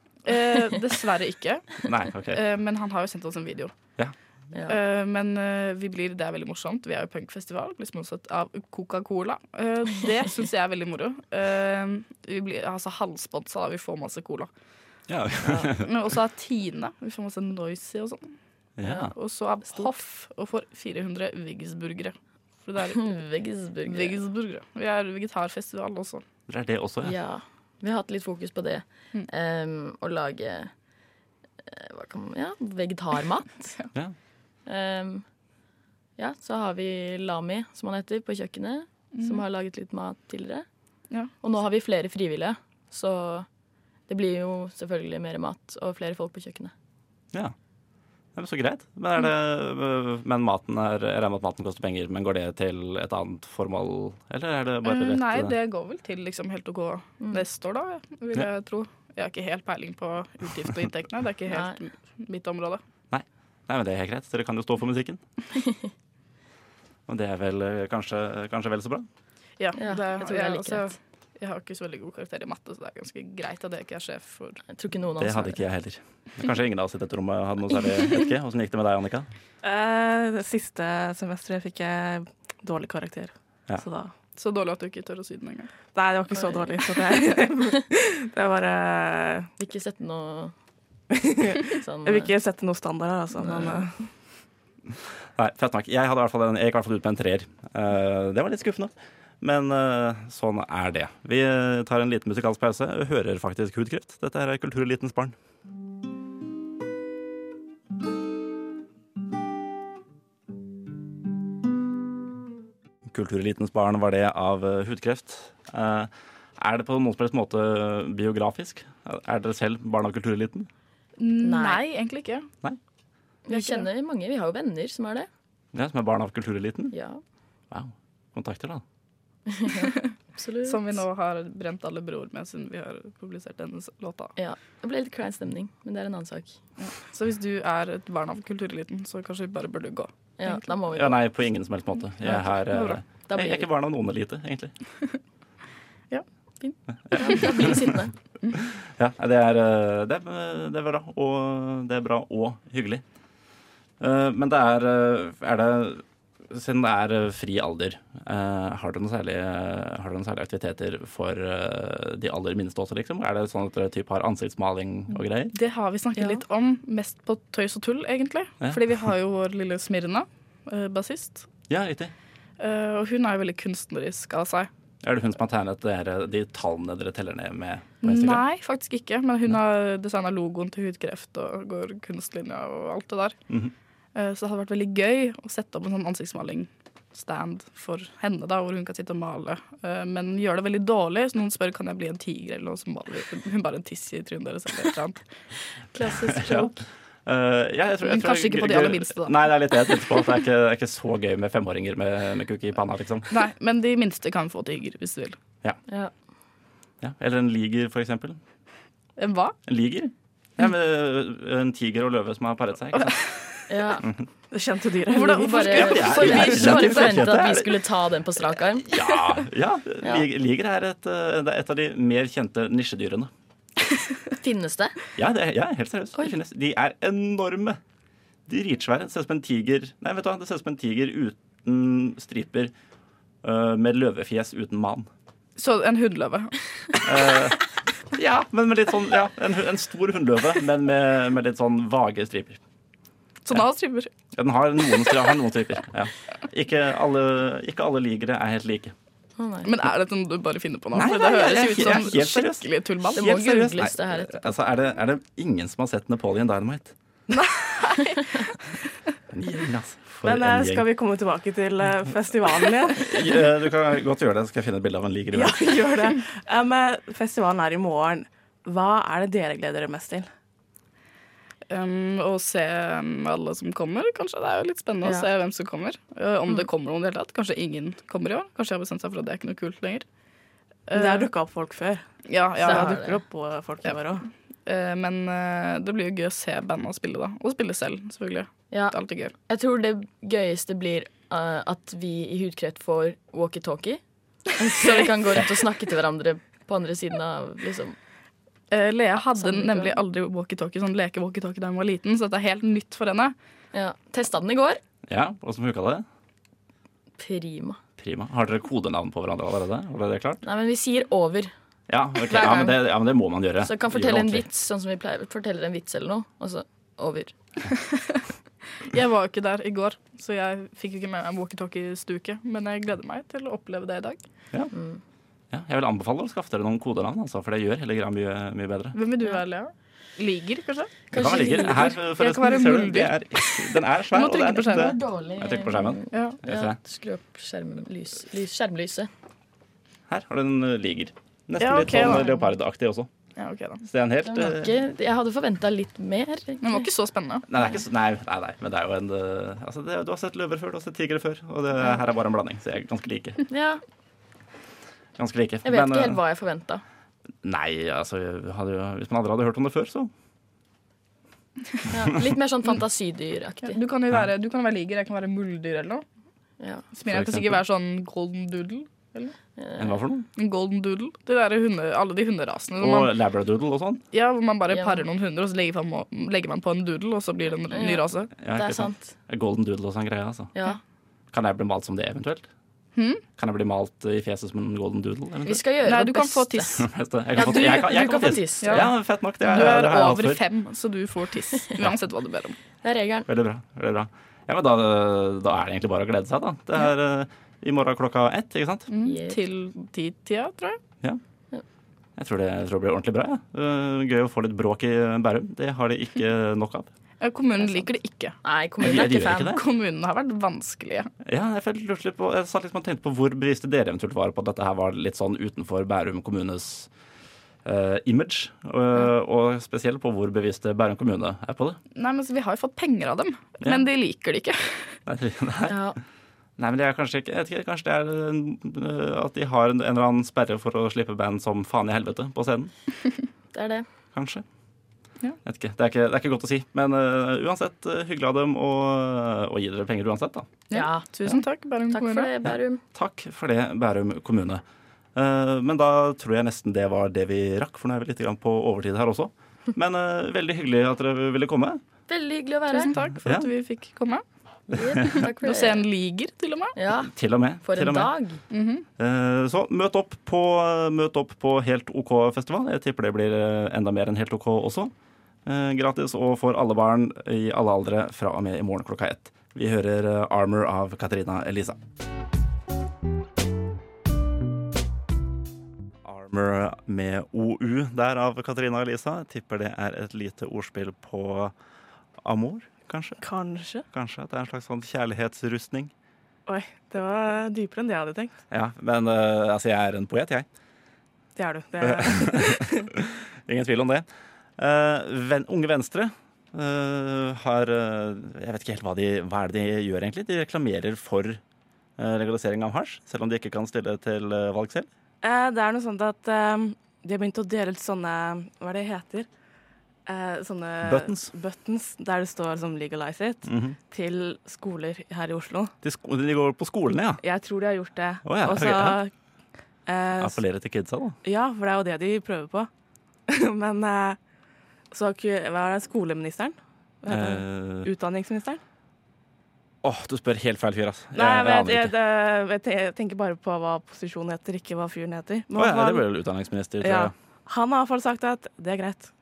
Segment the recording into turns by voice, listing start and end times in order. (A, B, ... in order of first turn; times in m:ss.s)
0:00.2-0:03.7 A
0:01.8-0:02.4 B
0:04.5-0:04.8 C
0:04.7-0:14.5 A
0:15.1-0:16.0 B
0:15.4-0:15.8 C
0:15.8-0:18.3 A
0:18.8-0:19.1 B
0:18.9-0:23.1 A
0:19.7-0:20.0 C
0:22.9-0:24.2 C
0:23.9-0:26.2 A
0:26.5-0:27.1 B
0:27.0-0:30.7 C
0:31.6-0:33.8 C
0:34.6-0:35.2 C
0:36.2-0:40.7 C
0:39.2-0:39.4 A
0:41.4-0:43.5 C
0:44.1-0:46.7 C
0:48.4-0:55.6 B
0:54.8-1:02.8 A
1:01.5-1:01.8 C
1:03.1-1:05.2 B
1:05.5-1:05.9 C
1:07.1-1:09.1 B
1:09.6-1:14.6 A
1:09.8-1:11.0 C
1:14.7-1:15.6 C
1:15.2-1:19.3 B
1:19.6-1:24.1 D
1:24.4-1:25.7 A
1:25.9-1:29.5 D
1:29.6-1:30.5 C
1:31.1-1:34.0 D
1:31.6-1:32.3 C
1:35.4-1:45.4 B
1:53.1-2:00.7 B
2:01.2-2:02.5 A
2:01.4-2:01.8 C
2:03.4-2:05.3 C
2:03.5-2:03.8 A
2:05.7-2:06.9 B
2:06.9-2:07.2 C
2:07.7-2:08.8 B
2:09.5-2:11.0 C
2:09.7-2:10.0 A
2:10.6-2:14.3 A
2:14.4-2:16.6 C
2:16.8-2:20.7 A
2:20.4-2:21.2 C
2:20.9-2:24.7 B
2:22.2-2:23.0 A
2:23.3-2:23.7 C
2:27.1-2:28.0 B
2:27.1-2:28.1 C
2:27.2-2:27.7 A
2:28.5-2:33.0 B
2:34.0-2:45.5 B
2:45.5-2:51.5 A
2:46.2-2:46.4 C
2:51.7-2:52.1 B
2:52.6-2:54.7 A
2:55.0-2:58.4 B
2:58.0-3:03.4 A
3:04.1-3:15.2 A
3:15.9-3:16.7 C
3:16.2-3:23.4 B
3:18.0-3:19.4 A
3:23.3-3:25.4 A
3:27.0-3:28.4 B
3:29.2-3:29.6 A
3:29.6-3:33.2 B
3:33.7-3:34.1 C
3:34.5-3:35.8 D
3:35.1-3:37.2 A
3:35.3-3:38.9 C
3:35.7-3:37.8 B
3:38.8-3:43.3 B
3:44.4-3:45.0 C
3:45.2-3:47.8 B
3:48.5-3:52.7 B
3:53.4-3:55.1 B
3:55.6-3:57.0 A
3:57.0-3:57.6 B
3:58.1-4:02.6 B
4:03.4-4:04.1 A
4:04.3-4:09.0 B
4:09.4-4:09.7 C
4:09.6-4:13.7 A
4:10.9-4:16.9 B
4:13.1-4:14.6 C
4:17.3-4:18.5 D
4:19.3-4:20.9 B
4:20.2-4:23.1 D
4:22.9-4:25.8 B
4:25.3-4:30.3 D
4:31.7-4:40.0 A
4:40.9-4:41.3 A
4:40.9-4:42.0 D
4:42.3-4:43.0 A
4:42.6-4:44.3 D
4:42.6-4:43.2 C
4:44.6-4:49.3 A
4:48.7-4:54.0 C
4:54.6-4:58.0 C
4:58.7-5:03.3 A
4:59.3-5:00.0 C
5:03.7-5:04.8 C
5:05.1-5:06.0 B
5:07.2-5:07.8 C
5:08.0-5:10.4 B
5:10.4-5:11.5 C
5:11.9-5:14.5 B
5:12.2-5:12.8 C
5:13.6-5:17.3 C
5:17.7-5:18.2 A
5:18.8-5:24.2 A
5:24.7-5:25.0 C
5:25.5-5:29.0 B
5:28.9-5:35.0 A
5:31.1-5:32.0 C
5:31.1-5:36.8 B
5:34.7-5:39.1 C
5:36.1-5:36.4 A
5:40.1-5:43.1 B
5:41.6-5:42.3 A
5:42.0-5:42.3 C
5:43.4-5:43.8 A
5:43.8-5:44.7 B
5:44.2-5:46.9 C
5:46.6-5:47.5 A
5:47.5-5:53.4 B
5:53.5-5:53.8 C
5:55.2-5:56.2 B
5:55.6-5:56.8 C
5:57.4-6:00.1 B
6:01.9-6:03.8 C
6:03.6-6:06.0 A
6:06.6-6:06.9 C
6:06.9-6:09.4 A
6:07.0-6:07.6 B
6:09.6-6:10.0 C
6:09.8-6:10.3 B
6:10.4-6:13.1 A
6:12.8-6:14.0 B
6:14.1-6:18.3 A
6:14.7-6:15.0 C
6:17.7-6:19.1 C
6:18.4-6:20.5 B
6:20.5-6:20.8 C
6:21.3-6:22.5 B
6:23.0-6:23.2 A
6:23.4-6:25.6 B
6:25.4-6:28.9 C
6:25.8-6:26.9 A
6:26.7-6:30.4 B
6:27.4-6:28.9 A
6:29.4-6:32.6 A
6:32.8-6:33.3 C
6:33.3-6:38.9 B
6:38.9-6:40.8 A
6:39.0-6:39.4 C
6:42.2-6:46.9 B
6:47.2-6:48.4 A
6:47.6-6:47.9 C
6:48.4-6:49.6 C
6:48.8-6:49.6 B
6:49.4-6:51.1 A
6:51.2-6:56.9 B
6:57.6-7:01.8 B
7:02.0-7:05.0 A
7:05.1-7:05.8 B
7:05.7-7:06.0 C
7:06.6-7:12.7 B
7:13.5-7:13.9 C
7:14.1-7:14.4 B
7:15.4-7:20.5 B
7:20.7-7:22.3 A
7:20.7-7:21.1 C
7:21.9-7:22.8 C
7:22.4-7:24.6 B
7:25.2-7:31.8 B
7:32.1-7:32.9 C
7:32.7-7:34.2 A
7:33.0-7:33.5 B
7:34.7-7:35.9 C
7:34.8-7:35.3 B
7:35.1-7:36.8 A
7:36.8-7:37.1 C
7:37.0-7:38.1 B
7:37.6-7:38.4 C
7:38.5-7:38.9 A
7:39.0-7:44.9 B
7:45.4-7:51.8 B
7:56.0-8:01.5 B
8:02.2-8:03.2 B
8:03.2-8:03.8 D
8:03.9-8:05.9 B
8:06.5-8:08.4 D
8:08.5-8:10.5 B
8:11.4-8:12.9 D
8:11.8-8:14.1 B
8:14.6-8:21.4 B
8:22.0-8:24.9 B
8:25.2-8:29.3 D
8:30.0-8:35.7 D
8:30.8-8:31.3 B
8:33.5-8:33.8 B
8:35.8-8:37.2 B
8:37.2-8:39.1 D
8:38.2-8:39.0 B
8:39.9-8:40.4 D
8:40.2-8:41.2 B
8:41.2-8:42.7 D
8:43.3-8:44.2 D
8:44.9-8:48.6 D
8:47.1-8:47.9 B
8:49.8-8:51.9 B
8:51.2-8:56.1 D
8:55.5-8:57.1 B
8:56.8-8:59.1 D